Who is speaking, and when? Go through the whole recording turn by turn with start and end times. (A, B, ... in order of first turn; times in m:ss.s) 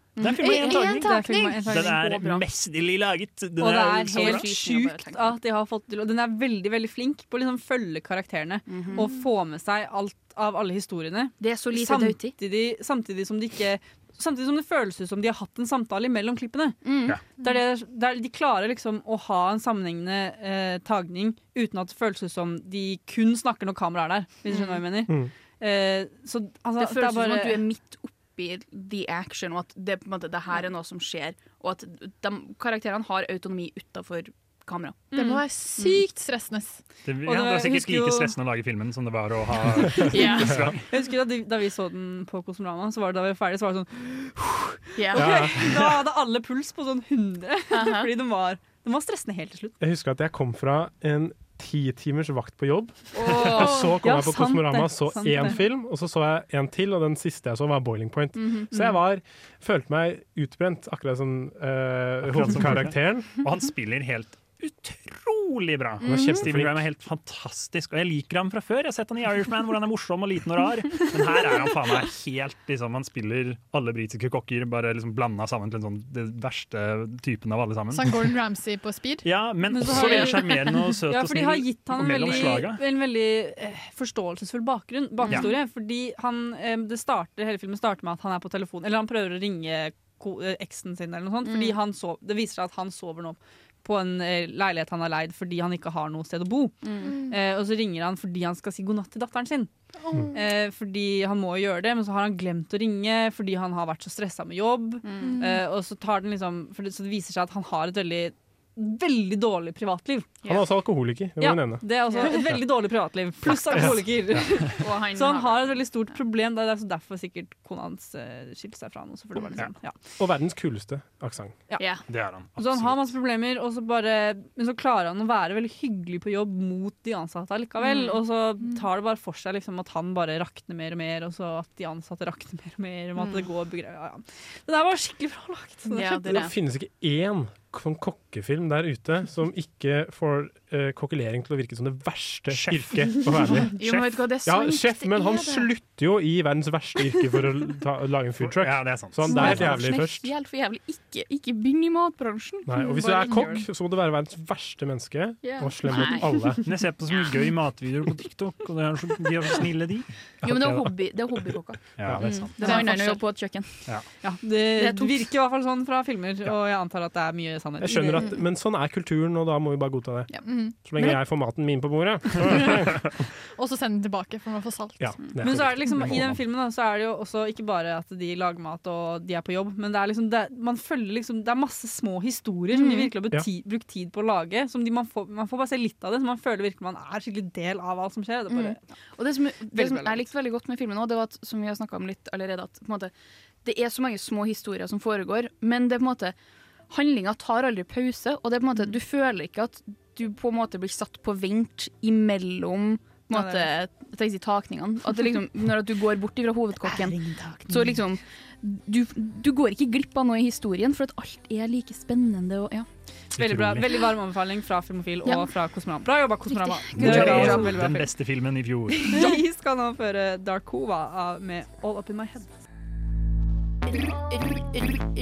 0:00.2-0:00.8 A
0:00.2-0:04.5 B
0:00.4-0:01.9 C
0:00.4-0:02.0 D
0:02.0-0:02.4 A
0:03.6-0:16.8 D
0:03.8-0:05.4 A
0:08.7-0:09.1 A
0:11.4-0:12.4 A
0:16.8-0:17.2 A
0:17.4-0:27.6 D
0:24.5-0:24.8 A
0:26.8-0:35.4 A
0:35.1-0:36.8 C
0:37.0-0:40.8 B
0:37.2-0:38.4 D
0:40.1-0:40.5 A
0:40.4-0:40.8 E
0:40.9-0:49.8 D
0:45.0-0:45.4 A
0:45.1-0:45.7 E
0:47.7-0:48.1 A
0:49.8-1:03.3 E
0:53.1-0:54.0 A
0:53.6-0:55.6 D
1:02.3-1:18.3 B
1:06.0-1:06.9 E
1:06.0-1:06.4 A
1:17.9-1:19.2 C
1:19.2-1:22.8 B
1:19.7-1:39.7 D
1:25.2-1:25.5 A
1:31.4-1:31.8 A
1:36.8-1:37.1 A
1:37.0-1:37.3 C
1:40.0-1:40.4 C
1:40.3-1:50.3 D
1:45.0-1:45.4 A
1:45.2-1:45.6 C
1:50.4-1:51.8 E
1:51.4-2:00.0 D
1:54.8-1:55.9 A
2:00.2-2:01.6 E
2:01.8-2:02.0 A
2:02.1-2:03.1 B
2:02.6-2:16.1 D
2:07.8-2:08.2 A
2:13.2-2:13.4 A
2:15.9-2:16.5 A
2:16.0-2:23.8 E
2:22.5-2:24.1 B
2:23.7-2:25.7 A
2:24.4-2:30.3 E
2:28.4-2:29.7 B
2:29.3-2:33.6 A
2:32.6-2:36.7 E
2:35.4-2:36.6 A
2:36.6-2:42.6 B
2:37.1-2:37.4 A
2:40.4-2:43.9 A
2:42.0-2:42.5 E
2:42.6-2:43.2 C
2:44.2-2:48.3 D
2:44.8-2:45.2 A
2:47.8-2:53.0 E
2:50.4-2:50.8 C
2:53.6-2:55.2 C
2:55.0-2:56.4 E
2:55.4-3:08.8 D
3:02.7-3:03.1 A
3:08.5-3:13.1 A
3:09.7-3:10.2 D
3:13.6-3:16.4 A
3:16.9-3:32.8 A
3:23.3-3:23.7 D
3:26.8-3:28.0 D
3:33.4-3:34.0 B
3:33.4-3:38.1 D
3:35.2-3:35.5 A
3:36.5-3:38.0 A
3:37.0-3:39.2 B
3:38.9-3:42.5 D